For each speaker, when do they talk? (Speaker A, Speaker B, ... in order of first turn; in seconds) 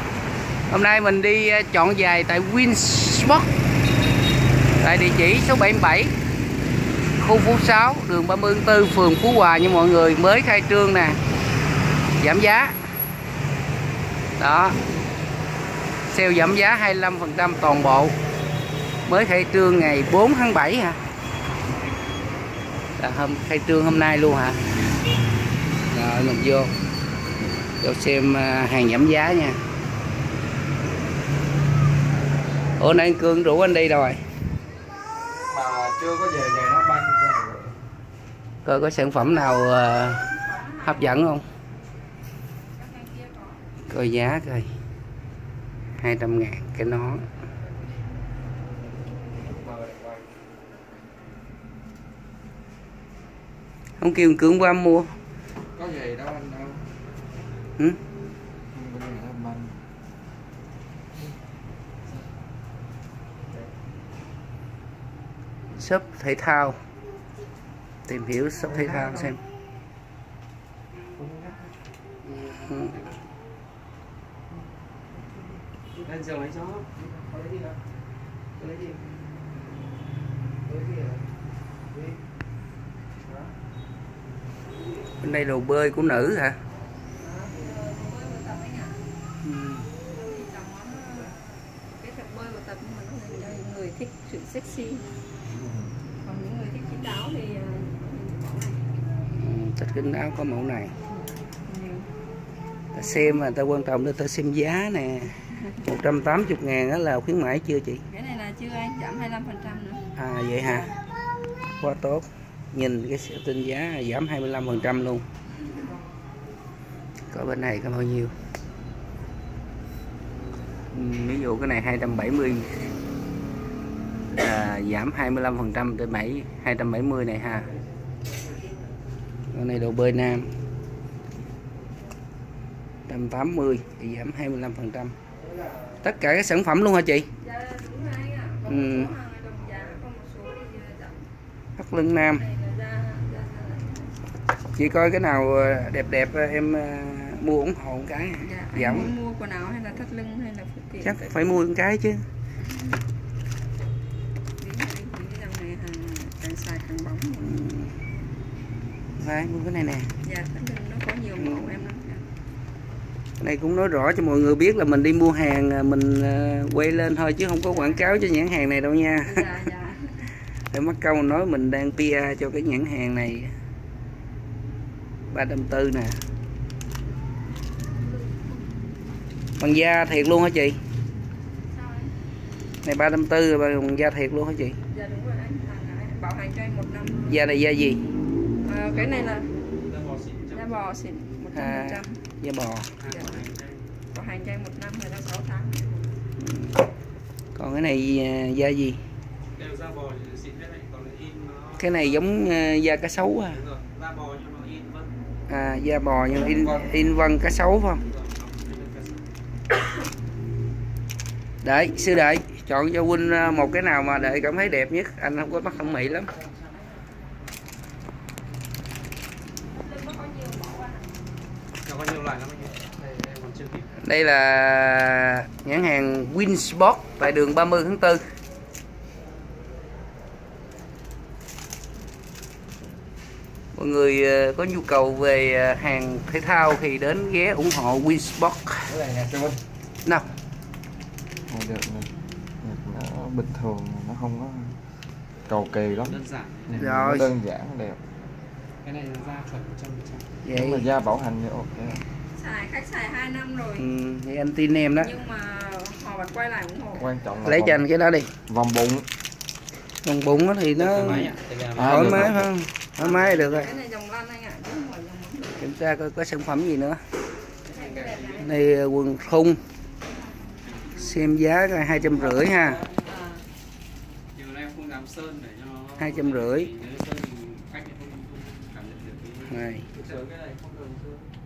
Speaker A: 0.7-3.5, 4.8-6.1, 7.2-11.2, 12.2-12.8, 14.4-14.8, 16.1-18.1, 19.1-21.0, 23.0-24.6, 25.9-26.7, 27.8-29.6, 32.8-34.2, 38.6-41.5, 43.9-44.7, 46.0-47.3, 54.0-55.1, 65.8-66.8, 68.1-69.4, 72.2-73.0, 85.2-86.6, 89.4-89.9, 99.3-100.9, 102.9-108.1, 110.2-110.9, 111.8-115.2, 117.3-118.3, 120.9-122.7, 124.3-127.7, 129.5-130.5, 133.1-135.1, 136.0-137.3, 138.7-139.1, 141.8-142.4, 144.8-149.1, 151.0-152.2, 157.4-158.0, 159.2-160.1, 161.4-161.8, 163.4-169.4, 170.7-173.5, 175.3-176.2, 179.6-180.8, 182.8-184.8, 187.3-188.0, 191.5-192.9, 196.4-196.9, 197.6-199.0, 201.8-203.6, 205.5-208.0, 211.6-216.3, 224.0-228.2, 233.7-238.9, 246.7-247.3, 250.4-250.9, 253.8-255.2, 257.4-258.3, 260.0-263.7, 265.6-267.0, 268.4-269.6, 270.9-272.9, 276.0-276.7, 279.5-279.9
Speaker B: 35.2-37.8, 49.5-50.1, 55.8-56.9, 58.7-59.8, 238.9-239.6, 241.5-244.8, 245.5-248.0, 250.5-252.0, 257.0-257.8, 258.5-259.1, 261.7-262.5, 280.0-281.2
Speaker C: 39.0-41.3, 42.8-43.7, 87.2-89.0, 90.1-95.1, 96.1-99.0, 101.6-102.1, 108.1-110.0, 137.4-141.3, 142.3-144.2, 148.4-151.5, 152.6-153.0, 154.6-157.7, 160.2-162.3, 167.7-168.1, 169.2-170.2, 181.7-182.1, 184.9-187.4, 188.6-189.5, 190.5-192.2, 193.0-193.4, 194.1-196.1, 216.6-217.1, 219.7-221.1, 252.3-253.9, 254.9-257.1, 263.0-265.6, 267.7-268.6, 272.9-273.4
Speaker D: 76.0-76.9, 188.9-190.8, 193.0-193.8, 199.5-202.1, 203.5-205.1, 208.0-209.3, 221.8-224.0, 246.1-246.8, 248.8-250.3, 260.8-262.3, 263.1-263.8, 267.7-268.4, 270.6-271.0, 274.3-280.2